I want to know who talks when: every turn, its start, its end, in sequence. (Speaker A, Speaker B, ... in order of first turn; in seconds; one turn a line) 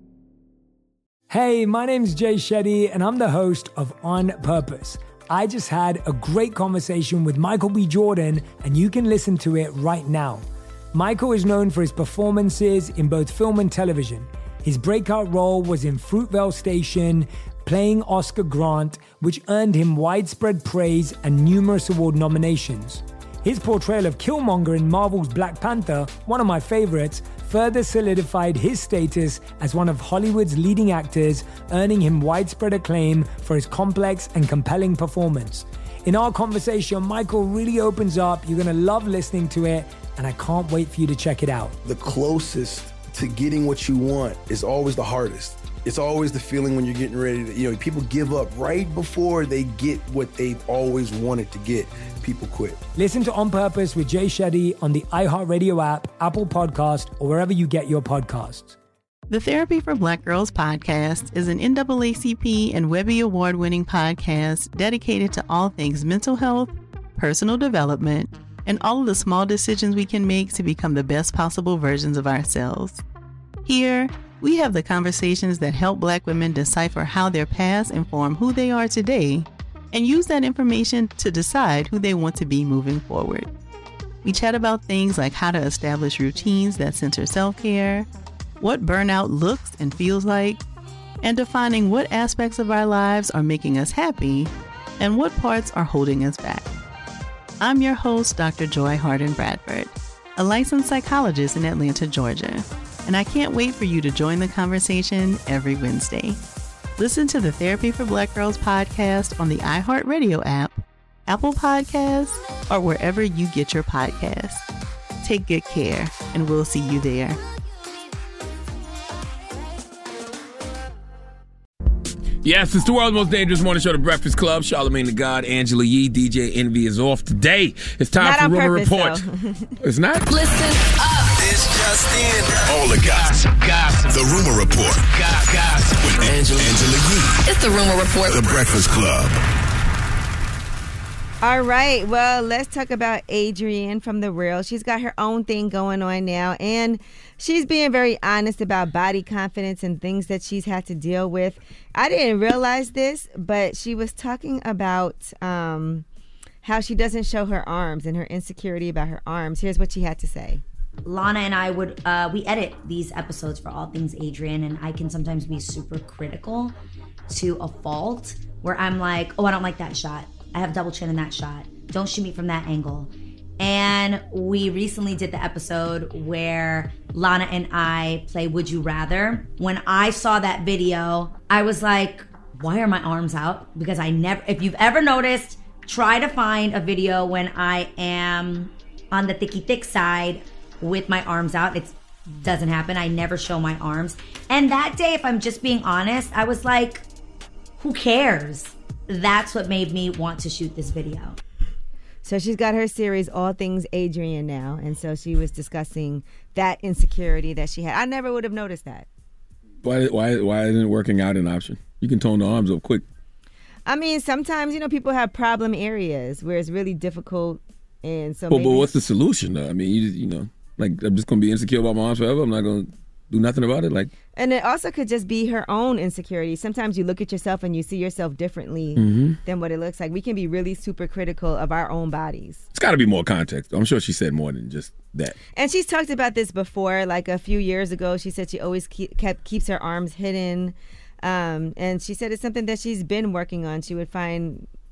Speaker A: 1.3-41.8
Speaker B: 41.8-52.8
Speaker A: 53.0-58.8
Speaker C: 59.3-73.0
Speaker C: 73.6-83.5
Speaker C: 84.2-88.1
Speaker C: 88.6-90.6
Speaker C: 91.2-96.7
Speaker C: 97.6-106.4
Speaker C: 107.0-114.6
Speaker C: 115.2-117.4
Speaker D: 122.4-129.2
Speaker E: 128.2-129.7
Speaker D: 129.8-130.5
Speaker F: 130.3-134.2
Speaker G: 132.7-133.4
Speaker G: 134.1-135.1
Speaker F: 135.1-136.8
Speaker G: 136.0-137.4
Speaker F: 137.4-138.6
Speaker G: 138.3-139.4
Speaker E: 141.4-156.0
Speaker E: 156.6-160.6
Speaker H: 161.1-166.8
Speaker H: 167.3-197.0
Speaker H: 197.8-201.4
Speaker E: 202.2-209.1
Speaker D: 209.8-213.0
Speaker E: 213.9-218.9
Speaker D: 218.5-224.1
Speaker E: 224.3-232.6
Speaker D: 229.0-229.4
Speaker D: 232.7-235.4
Speaker E: 235.6-244.7